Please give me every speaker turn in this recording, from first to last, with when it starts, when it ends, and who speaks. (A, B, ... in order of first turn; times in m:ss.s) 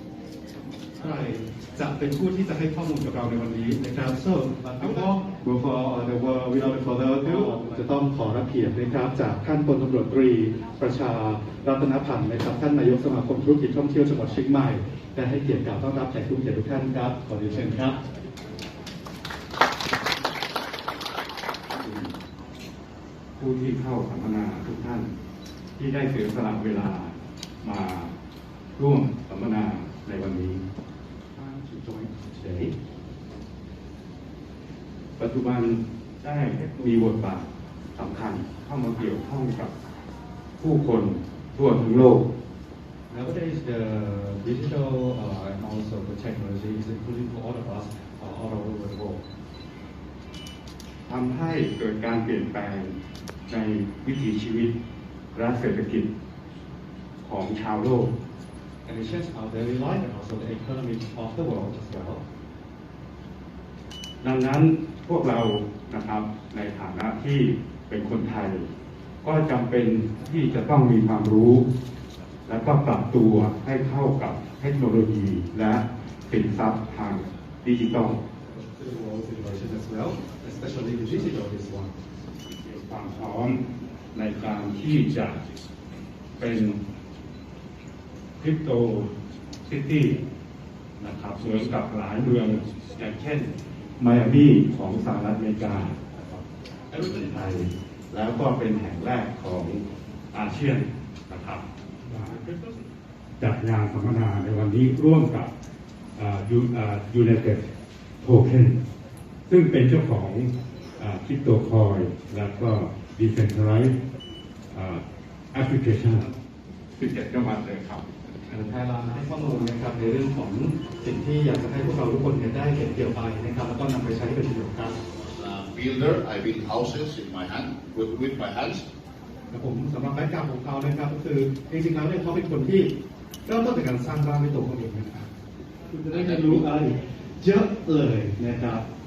0:01.0-0:18.0 A
0:21.8-0:22.1 B
0:23.4-0:25.1 B
0:25.8-0:28.1 B
0:28.8-0:30.6 B
0:31.4-0:32.7 B
0:35.2-0:39.7 B
0:40.6-0:42.3 B
0:43.1-0:49.2 A
0:51.1-0:53.0 B
0:53.5-0:54.8 B
0:55.3-0:56.1 B
0:57.2-0:58.1 B
0:58.9-1:02.2 A
1:04.2-1:08.7 B
1:09.2-1:11.6 B
1:12.5-1:18.2 B
1:18.5-1:21.9 A
1:22.6-1:23.6 B
1:24.1-1:25.4 B
1:26.4-1:26.8 B
1:28.4-1:29.1 B
1:29.7-1:30.2 B
1:31.0-1:36.4 B
1:36.9-1:42.6 B
1:43.4-1:45.5 B
1:46.2-1:47.7 B
1:48.2-1:48.8 B
1:49.5-1:53.9 B
1:54.7-1:56.3 B
1:57.0-1:58.1 B
1:58.5-2:05.0 A
2:05.2-2:08.8 C
2:09.5-2:12.9 A
2:13.5-2:15.3 A
2:15.9-2:18.8 A
2:16.1-2:16.7 C